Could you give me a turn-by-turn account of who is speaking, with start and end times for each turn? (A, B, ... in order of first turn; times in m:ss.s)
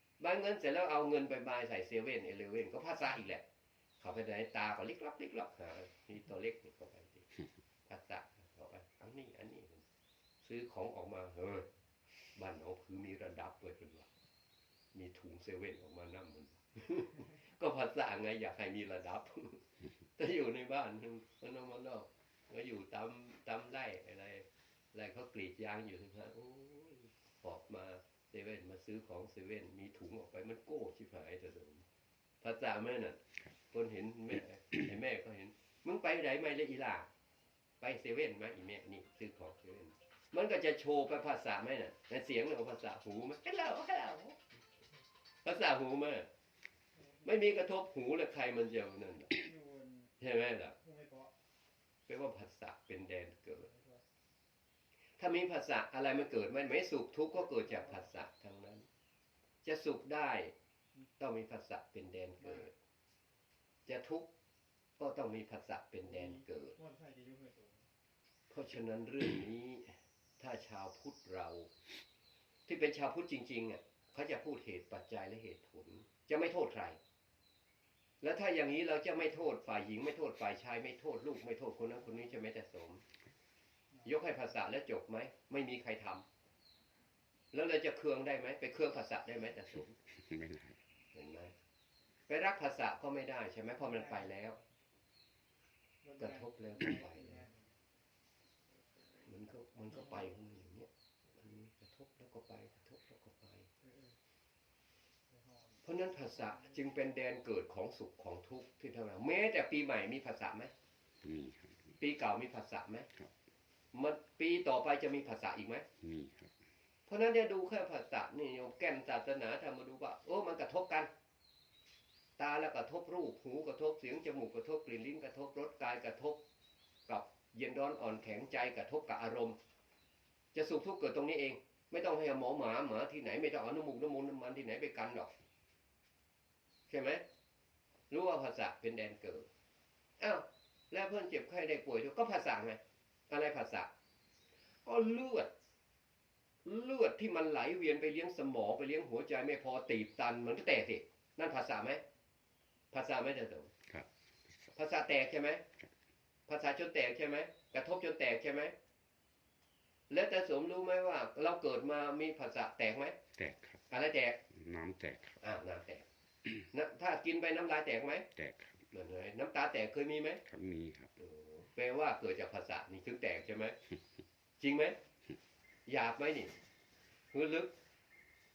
0:00.2-0:03.4 A
0:04.0-0:07.3 A
0:07.9-0:09.8 A
0:10.4-0:11.7 A
0:12.4-0:14.1 A
0:14.9-0:19.6 A
0:20.2-0:31.8 A
0:32.4-0:37.1 A
0:37.8-0:44.4 A
0:45.4-0:46.3 A
0:47.0-0:47.3 B
0:47.2-0:49.4 A
0:49.3-0:50.1 B
0:50.2-0:50.8 A
0:50.8-0:51.3 B
0:52.1-0:53.7 A
0:53.5-0:54.0 B
0:55.2-0:58.9 A
0:57.4-0:58.0 B
0:59.6-1:00.5 A
1:01.2-1:02.7 A
1:02.4-1:02.7 B
1:03.8-1:04.3 A
1:05.0-1:06.8 A
1:06.1-1:07.9 B
1:08.5-1:11.7 A
1:12.7-1:17.0 A
1:18.2-1:23.0 A
1:24.0-1:26.2 A
1:27.5-1:30.0 A
1:30.0-1:30.8 C
1:31.1-1:31.5 A
1:32.3-1:34.6 A
1:33.8-1:34.4 B
1:36.0-1:37.7 B
1:36.2-1:37.5 A
1:39.2-1:43.7 A
1:43.8-1:44.2 B
1:45.3-1:46.9 B
1:45.8-1:50.7 A
1:51.2-1:52.0 C
1:52.0-1:53.1 A
1:53.9-1:55.8 A
1:56.0-1:56.5 C
1:57.1-2:01.1 A
2:02.4-2:06.4 A
2:07.1-2:09.6 A
2:10.5-2:15.3 A
2:16.9-2:17.2 A
2:18.1-2:19.5 A
2:20.2-2:23.9 A
2:24.8-2:25.5 A
2:26.6-2:32.0 A
2:32.9-2:33.7 A
2:34.7-2:35.6 A
2:36.5-2:38.7 A
2:40.1-2:43.2 A
2:43.3-2:43.8 C
2:43.9-2:44.4 A
2:44.5-2:45.4 C
2:45.4-2:46.0 A
2:46.7-2:48.2 A
2:48.3-2:48.9 C
2:48.9-2:50.4 A
2:50.4-2:51.2 C
2:51.2-2:53.8 A
2:54.6-2:55.0 A
2:55.8-2:56.5 A
2:57.3-2:57.7 A